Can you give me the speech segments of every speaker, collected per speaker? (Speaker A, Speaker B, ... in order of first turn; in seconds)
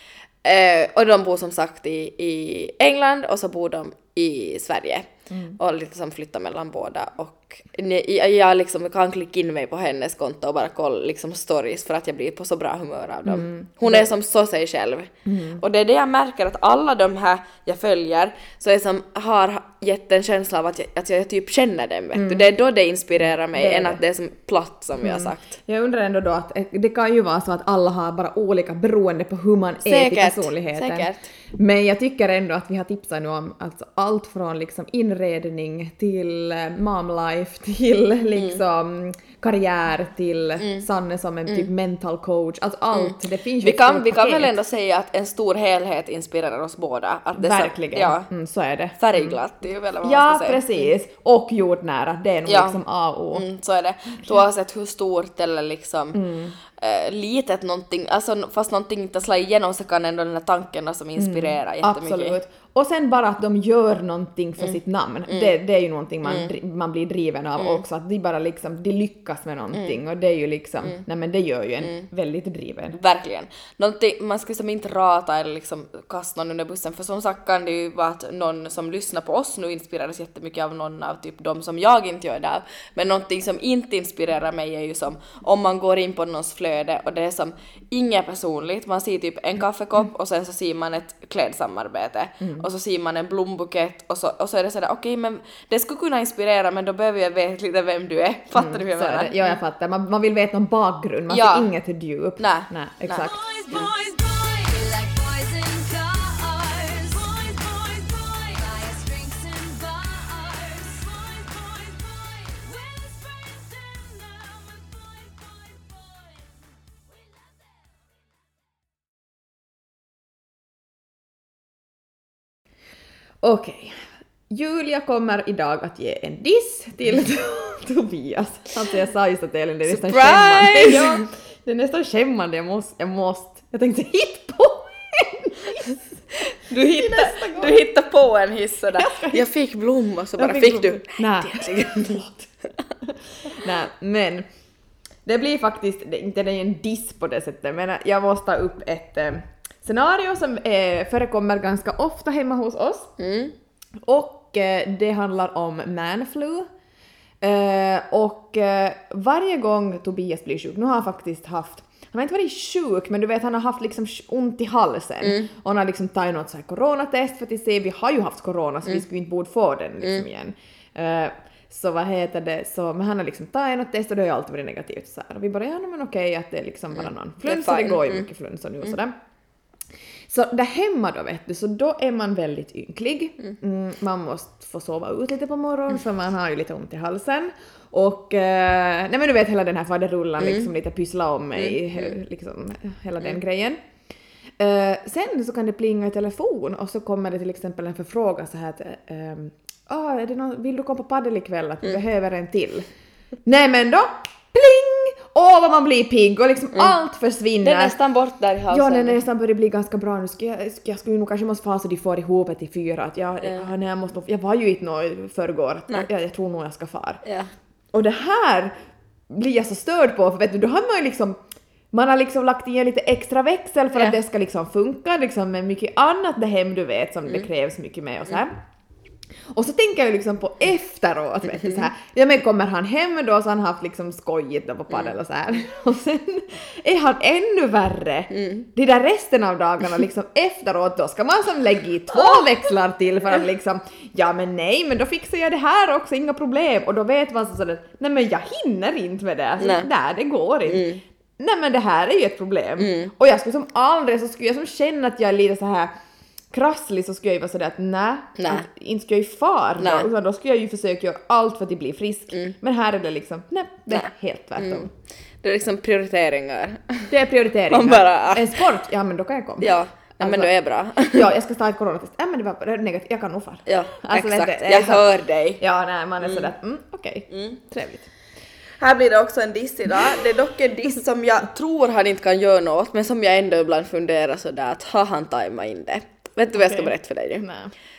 Speaker A: 0.4-25.6, 29.8-31.3, 42.9-48.3, 49.0-50.9, 52.5-52.8, 53.3-62.4, 66.2-66.5, 67.6-67.8, 72.9-99.3, 101.3-101.7, 102.4-103.2, 129.9-131.2, 136.7-142.4, 153.2-153.6, 177.0-178.3, 190.4-190.7, 191.6-192.1, 207.6-209.2, 213.4-213.7, 217.2-217.5, 238.3-238.6, 249.6-249.9, 250.7-251.0, 252.8-253.1, 258.4-258.6, 259.8-260.1, 263.9-264.9, 265.4-267.1, 267.7-268.6, 269.6-271.3, 273.6-275.6, 276.2-276.5, 277.3-277.6, 278.8-287.5
Speaker B: 5.3-5.6, 13.3-14.1, 15.3-15.6, 22.1-22.5, 23.5-24.0, 25.0-44.5, 47.4-49.4, 50.0-53.5, 56.1-56.5, 61.2-73.0, 92.4-92.7, 98.5-103.4, 123.4-136.0, 136.7-137.8, 138.9-139.5, 140.4-142.3, 143.4-144.5, 145.3-153.1, 154.1-156.7, 157.4-179.2, 180.3-193.8, 194.6-202.9, 203.4-207.9, 208.7-217.2, 217.9-218.7, 219.3-221.4, 221.9-228.6, 229.5-255.9, 256.5-264.9, 267.1-270.5, 271.1-278.1, 286.6-287.7
Speaker C: 103.2-118.0